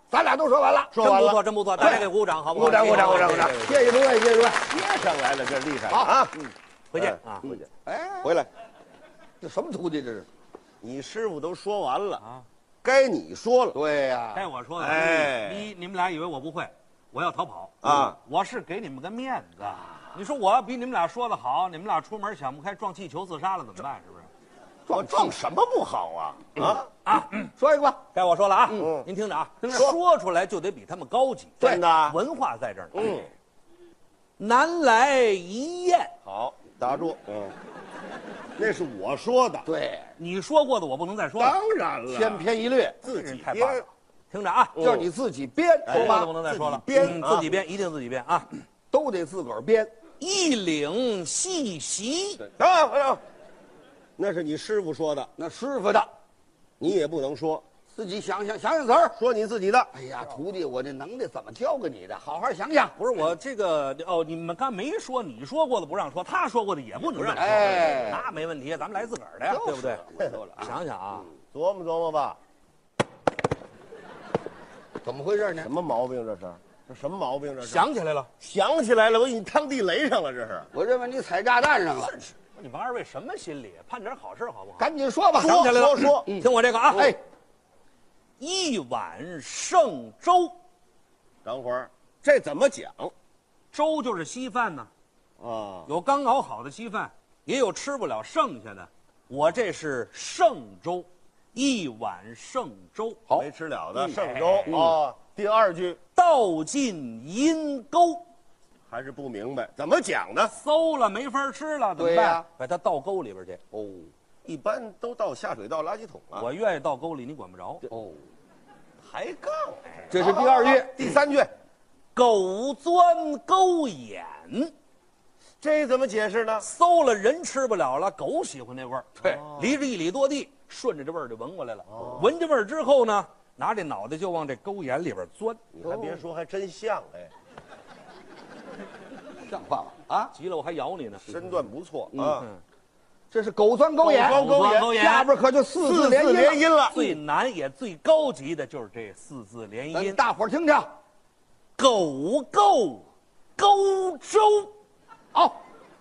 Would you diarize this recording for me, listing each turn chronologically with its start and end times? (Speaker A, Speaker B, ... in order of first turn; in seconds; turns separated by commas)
Speaker A: 0.1-1.0, Speaker B: 0.9-3.6, Speaker C: 1.0-4.0, Speaker A: 1.8-2.1, Speaker A: 2.6-4.7, Speaker B: 4.7-6.4, Speaker A: 5.9-6.2, Speaker C: 6.5-7.5, Speaker B: 7.0-7.7, Speaker A: 7.4-8.4, Speaker B: 8.2-8.5, Speaker A: 9.4-10.3, Speaker B: 10.8-12.2, Speaker C: 12.2-12.4, Speaker B: 12.8-13.8, Speaker A: 13.7-14.5, Speaker C: 14.3-24.3, Speaker B: 14.8-15.7, Speaker B: 17.8-18.2, Speaker A: 24.9-25.4, Speaker B: 24.9-26.9, Speaker C: 27.1-27.5, Speaker A: 27.6-28.0, Speaker C: 28.1-33.2, Speaker B: 28.8-29.1, Speaker A: 29.6-29.9, Speaker B: 29.7-30.0, Speaker B: 31.6-32.2, Speaker B: 32.9-33.3, Speaker C: 34.4-36.1, Speaker B: 36.2-37.5, Speaker B: 38.6-39.7, Speaker A: 39.6-40.1, Speaker C: 40.2-41.6, Speaker A: 41.4-43.0, Speaker B: 41.6-42.5, Speaker B: 43.0-43.8, Speaker C: 43.0-44.8, Speaker B: 44.8-45.1, Speaker A: 44.8-46.3, Speaker B: 45.9-47.5, Speaker C: 45.9-48.6, Speaker A: 48.9-49.9, Speaker C: 50.2-52.4, Speaker B: 52.4-53.2, Speaker B: 54.2-55.3, Speaker A: 55.4-56.1, Speaker B: 56.8-57.6, Speaker A: 57.9-59.2, Speaker B: 59.2-59.9, Speaker A: 59.9-63.0, Speaker C: 63.0-70.0, Speaker B: 67.0-68.2, Speaker A: 67.4-68.3, Speaker A: 69.5-70.8, Speaker C: 70.6-71.3, Speaker B: 71.5-72.4, Speaker A: 75.0-75.7, Speaker B: 75.6-77.9, Speaker C: 77.6-78.3, Speaker B: 78.4-80.7, Speaker A: 80.7-82.3, Speaker C: 82.0-87.2, Speaker A: 84.8-85.6, Speaker B: 85.4-86.3, Speaker A: 86.3-87.2, Speaker C: 88.4-90.6, Speaker B: 91.4-93.1, Speaker C: 93.7-94.9, Speaker B: 95.4-95.9, Speaker C: 95.9-103.3, Speaker B: 103.3-106.0, Speaker C: 104.0-104.7, Speaker A: 104.7-105.0, Speaker C: 106.2-108.2, Speaker B: 108.9-110.5, Speaker C: 110.5-113.6, Speaker A: 112.0-112.5, Speaker A: 113.7-114.1, Speaker B: 114.5-116.5, Speaker C: 116.3-117.8, Speaker A: 117.9-118.2, Speaker B: 119.0-121.5, Speaker A: 120.1-121.0, Speaker C: 122.2-124.7, Speaker B: 125.6-126.7, Speaker C: 126.6-135.6, Speaker B: 129.2-129.8, Speaker B: 131.9-132.3, Speaker B: 135.7-137.3, Speaker A: 135.8-136.2, Speaker A: 139.4-140.3, Speaker C: 140.3-141.3, Speaker B: 141.3-142.5, Speaker A: 142.1-142.4, Speaker A: 143.3-144.4, Speaker B: 144.0-144.9, Speaker C: 144.1-145.3, Speaker A: 144.9-146.6, Speaker B: 145.8-147.0, Speaker C: 146.9-150.2, Speaker A: 149.9-150.9, Speaker C: 151.8-153.1, Speaker C: 153.6-154.7